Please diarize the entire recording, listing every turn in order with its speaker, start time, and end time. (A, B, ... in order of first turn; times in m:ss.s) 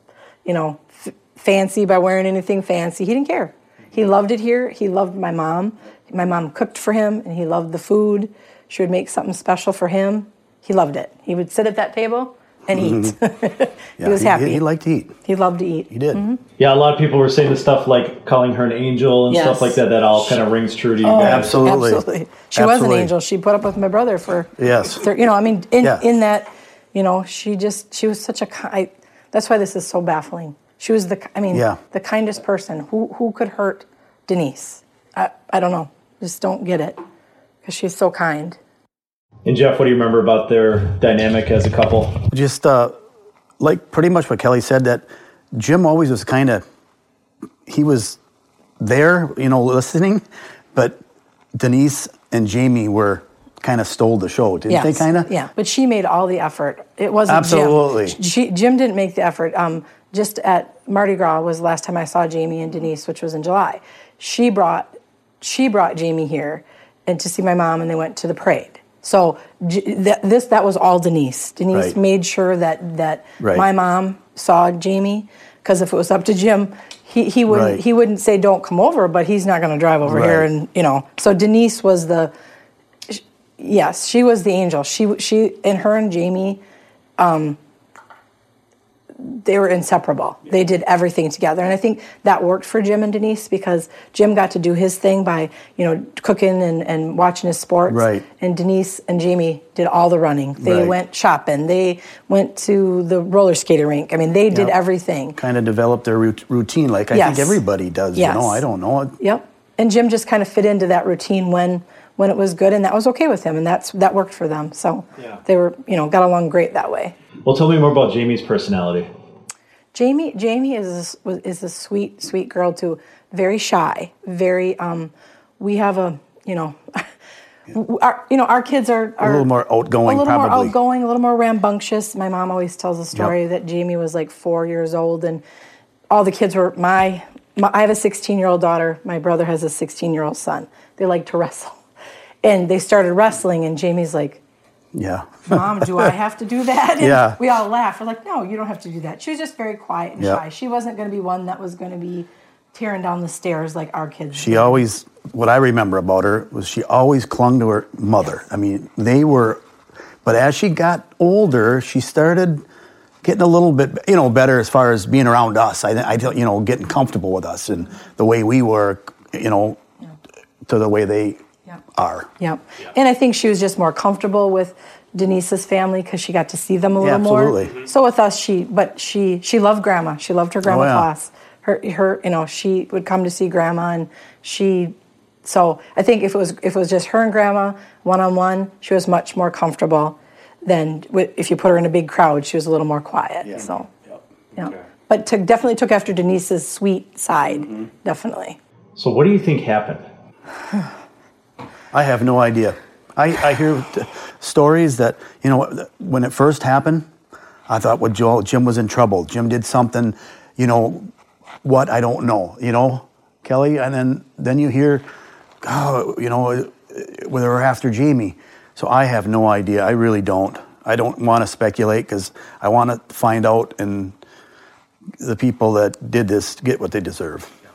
0:00.4-0:14.6 A
0:12.7-0:13.1 B
0:14.0-0:15.2 B
0:15.2-0:16.4 A
0:15.9-0:16.2 B
0:16.6-0:21.6 C
0:19.3-0:19.8 A
0:21.0-0:37.0 A
0:21.1-0:23.1 B
0:24.6-0:25.0 B
0:31.5-0:31.8 B
0:37.6-0:38.6 A
0:39.4-0:42.2 C
0:42.3-0:42.9 B
0:43.6-0:46.6 B
0:47.6-0:48.2 B
0:48.8-0:51.0 B
0:51.5-0:55.3 B
0:54.7-1:22.3 A
0:57.3-0:58.2 B
1:13.4-1:13.6 B
1:17.5-1:17.8 B
1:20.0-1:20.5 B
1:23.1-1:26.6 A
1:27.2-1:27.6 A
1:29.2-1:45.4 A
1:37.9-1:38.2 B
1:40.6-1:41.0 B
1:44.5-1:44.8 B
1:45.3-1:49.2 B
1:47.1-1:47.6 A
1:48.1-1:48.6 A
1:49.2-1:57.1 A
1:57.4-1:59.1 C
1:59.9-2:07.0 A
2:07.7-2:09.4 A
2:09.2-2:10.7 B
2:10.0-2:15.4 A
2:16.1-2:21.8 A
2:22.4-2:24.4 A
2:24.9-2:26.1 B
2:25.5-2:34.8 A
2:27.0-2:27.4 B
2:34.3-2:39.6 B
2:40.2-2:42.6 B
2:43.2-2:49.8 B
2:50.6-2:51.4 B
2:51.9-2:52.3 B
2:52.4-3:13.9 A
2:57.0-2:57.8 B
3:00.6-3:01.1 B
3:14.5-3:18.6 A
3:19.0-3:20.0 C
3:21.9-3:27.1 B
3:27.7-3:31.1 B
3:31.6-3:35.0 B
3:35.6-3:44.2 B
3:45.2-3:47.5 B